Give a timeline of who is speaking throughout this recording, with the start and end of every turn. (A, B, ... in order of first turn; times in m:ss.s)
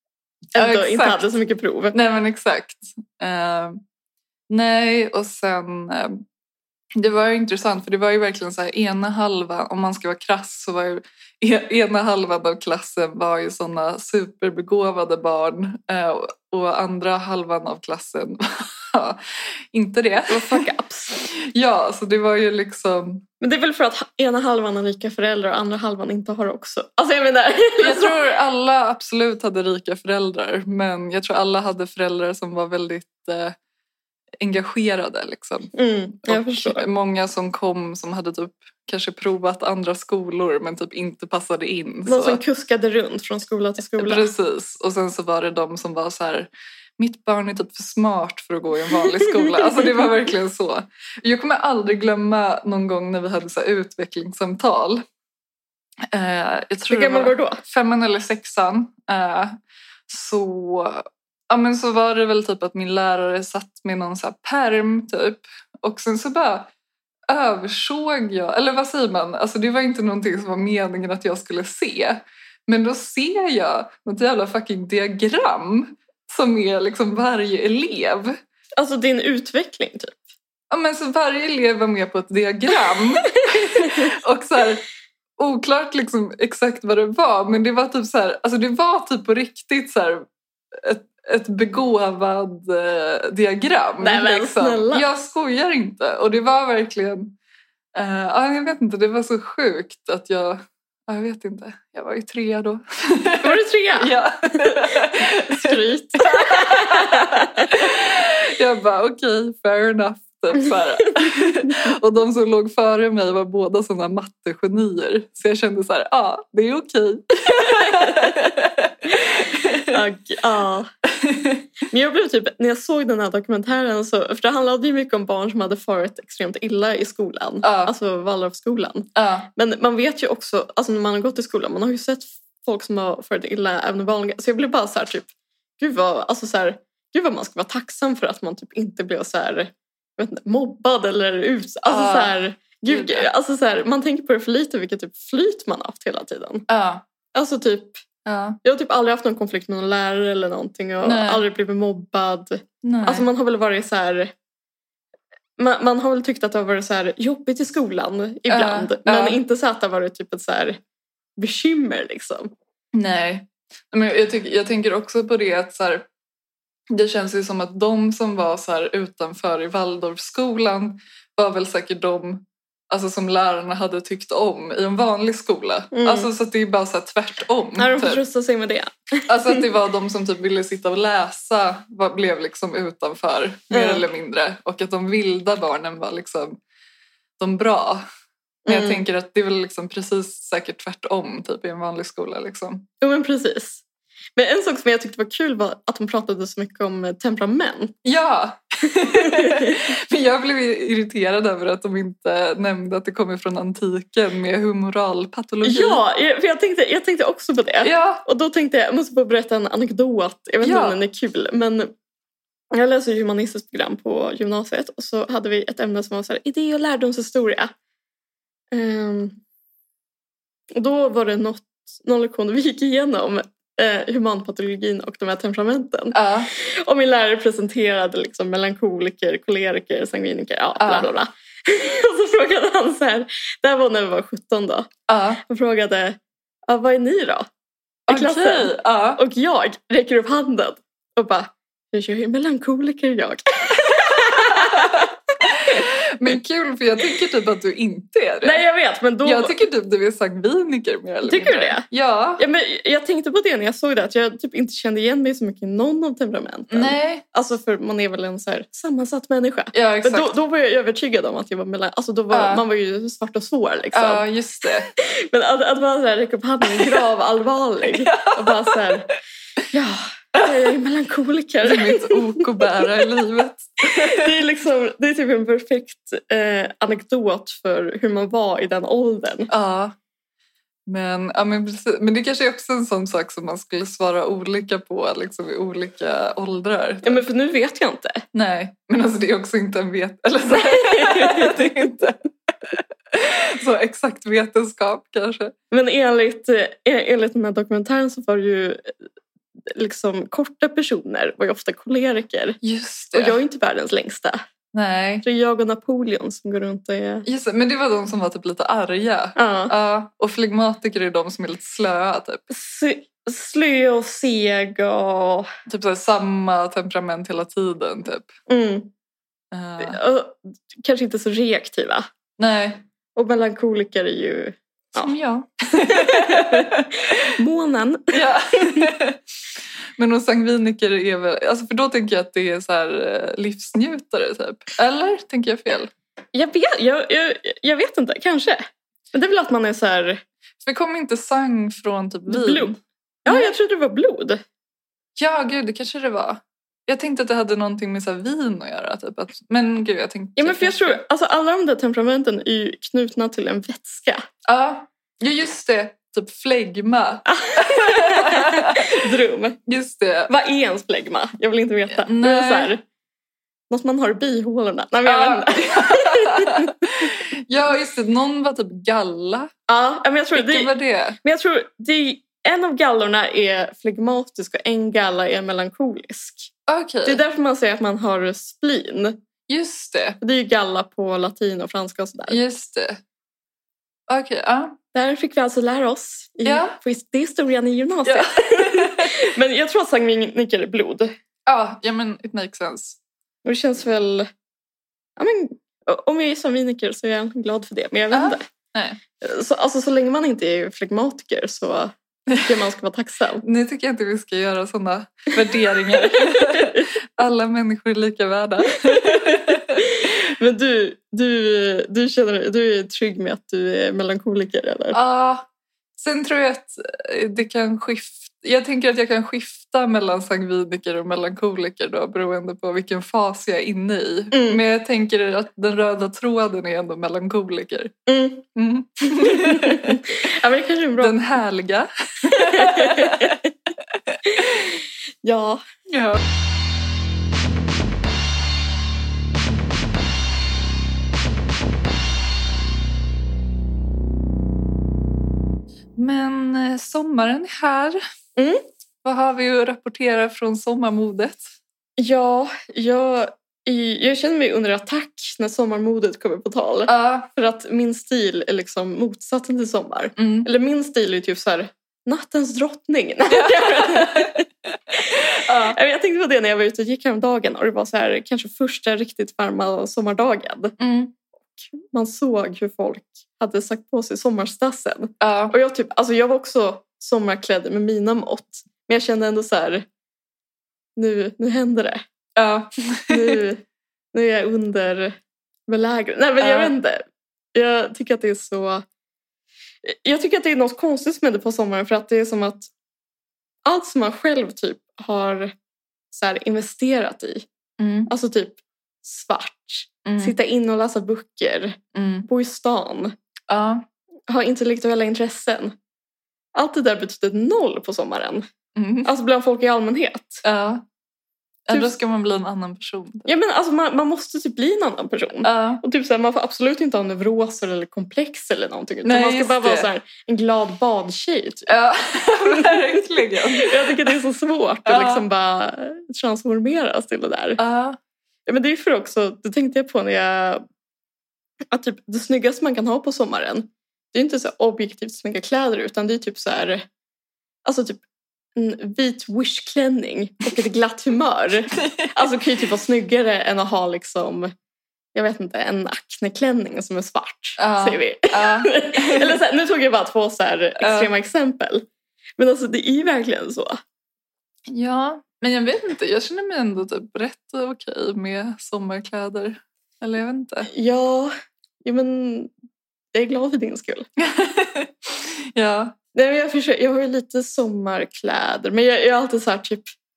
0:00.5-0:02.0 A
0:00.6-0:01.3 B
0:01.9-0:03.8 B
0:04.5-0:06.2 B
0:07.0-0:19.2 B
0:19.7-0:20.6 B
0:20.3-0:21.2 A
0:21.2-0:23.2 B
0:23.4-0:28.3 A
0:27.8-0:33.6 B
0:34.4-0:35.7 B
0:35.7-0:36.9 A
0:36.2-0:42.4 B
0:42.1-0:44.3 A
0:44.0-0:55.0 B
0:56.1-0:59.6 B
0:56.9-0:57.6 A
1:00.1-1:06.7 B
1:07.3-1:18.4 B
1:18.8-1:20.2 A
1:20.7-1:24.8 B
1:23.4-1:24.1 A
1:25.4-1:37.4 B
1:34.0-1:35.1 A
1:38.0-2:00.0 B
1:43.4-1:47.7 A
1:57.8-1:58.5 A
1:59.8-2:00.9 A
2:01.2-2:01.6 B
2:01.9-2:26.7 A
2:07.6-2:07.9 B
2:09.2-2:09.5 B
2:21.9-2:22.3 B
2:22.9-2:23.3 B
2:26.7-2:27.0 B
2:27.3-2:28.0 A
2:28.2-2:28.6 B
2:28.6-2:34.3 A
2:31.0-2:31.4 B
2:32.8-2:33.3 B
2:35.6-2:40.8 A
2:38.5-2:39.4 B
2:41.4-2:42.5 A
2:42.9-2:46.1 B
2:46.9-2:58.2 B
2:55.9-2:56.3 A
2:57.8-2:59.6 A
2:59.3-3:06.6 B
3:03.7-3:04.0 A
3:07.4-3:08.0 B
3:08.7-3:09.0 A
3:08.7-3:12.9 B
3:13.0-3:13.8 A
3:14.4-3:18.0 A
3:18.0-3:26.0 B
3:19.2-3:19.8 A
3:25.6-3:31.9 A
3:27.8-3:28.2 B
3:30.6-3:31.0 B
3:32.7-3:37.7 A
3:38.7-3:39.4 A
3:40.8-3:54.9 A
3:46.1-3:46.5 B
3:50.8-3:51.1 B
3:55.1-3:55.4 B
3:55.4-3:57.5 A
3:58.1-3:59.2 B
3:58.1-4:05.1 A
4:03.9-4:08.6 B
4:08.4-4:09.6 A
4:09.2-4:12.4 B
4:11.3-4:11.9 A
4:12.4-4:24.3 A
4:16.7-4:17.2 B
4:19.7-4:20.3 B
4:22.3-4:22.6 B
4:23.9-4:24.9 B
4:25.0-4:29.1 A
4:27.9-4:28.9 B
4:29.7-4:32.9 A
4:30.4-4:30.7 B
4:31.6-4:34.3 B
4:33.8-4:39.5 A
4:39.5-4:40.0 B
4:40.9-4:47.3 B
4:47.0-4:48.2 A
4:48.3-4:55.5 B
4:50.5-4:51.8 A
4:55.7-4:58.9 A
4:59.7-5:02.6 A
5:02.6-5:03.4 B
5:03.1-5:04.4 A
5:04.7-5:05.2 B
5:05.2-5:07.3 A
5:07.2-5:12.4 B
5:09.4-5:09.7 A
5:12.5-5:15.5 A
5:15.7-5:18.3 B
5:18.5-5:18.9 A
5:19.5-5:20.0 B
5:19.8-5:22.1 A
5:22.4-5:22.8 B
5:23.2-5:25.1 A
5:25.0-5:27.3 B
5:25.7-5:28.9 A
5:28.1-5:29.2 B
5:30.0-5:35.9 B
5:36.3-5:38.6 A
5:39.1-5:40.2 A
5:40.6-5:43.5 B
5:42.3-5:44.4 A
5:45.2-5:51.0 B
5:50.4-5:54.2 A
5:54.4-5:59.1 B
5:57.3-5:59.6 A
5:59.7-6:00.3 B
6:00.3-6:02.8 A
6:02.0-6:02.7 B
6:03.7-6:06.7 A
6:05.0-6:09.5 B
6:09.7-6:16.5 A
6:10.3-6:11.2 B
6:16.7-6:17.2 B
6:17.0-6:19.2 A
6:19.5-6:20.2 B
6:20.2-6:22.4 A
6:22.3-6:23.0 B
6:24.1-6:24.8 B
6:24.9-6:31.1 A
6:26.4-6:26.8 B
6:28.0-6:29.2 B
6:31.5-6:33.0 B
6:33.4-6:34.3 A
6:35.2-6:38.4 A
6:38.1-6:39.0 B
6:39.2-6:43.4 A
6:42.3-6:42.6 B
6:43.4-6:49.8 B
6:45.7-6:46.9 A
6:48.9-6:55.0 A
6:54.9-7:07.9 B
7:04.3-7:04.6 A
7:08.1-7:08.5 A
7:08.6-7:10.3 B
7:09.1-7:11.2 A
7:11.0-7:13.4 B
7:12.3-7:13.5 A
7:13.9-7:14.7 B
7:14.3-7:14.7 A
7:15.2-7:15.6 A
7:15.9-7:16.2 B
7:26.0-7:28.0 B
7:28.4-7:28.6 A
7:29.0-7:31.5 B
7:32.0-7:50.8 A
7:36.9-7:37.3 B
7:40.2-7:40.5 B
7:43.3-7:45.8 B
7:50.8-7:51.1 B
7:51.6-7:59.8 A
7:55.2-7:55.5 B
8:01.0-8:02.0 A
8:02.4-8:03.4 B
8:03.1-8:05.2 A
8:05.7-8:08.8 A
8:06.4-8:06.7 B
8:09.8-8:12.7 A
8:13.6-8:15.5 A
8:16.1-8:17.5 A
8:17.8-8:18.1 B
8:18.1-8:23.1 A
8:20.0-8:20.3 B
8:21.9-8:22.3 B
8:23.5-8:23.8 B
8:24.3-8:25.8 A
8:26.6-8:28.4 A
8:28.8-8:29.1 B
8:29.0-8:30.4 A
8:30.4-8:30.8 B
8:31.7-8:33.3 B
8:33.2-8:41.8 A
8:35.4-8:35.8 B
8:39.0-8:39.9 B
8:41.7-8:44.2 B
8:42.4-8:47.6 A
8:44.9-8:45.2 B
8:47.6-8:48.0 B
8:48.5-8:50.6 A
8:51.7-8:56.8 A
8:57.6-8:58.0 A
8:58.6-9:04.5 A
9:05.1-9:11.8 A
9:07.6-9:09.4 B
9:10.8-9:11.1 B
9:12.4-9:13.8 A
9:14.7-9:20.7 B
9:20.7-9:21.3 A
9:21.8-9:22.5 A
9:23.1-9:24.1 A
9:24.2-9:26.0 B
9:26.2-9:29.9 A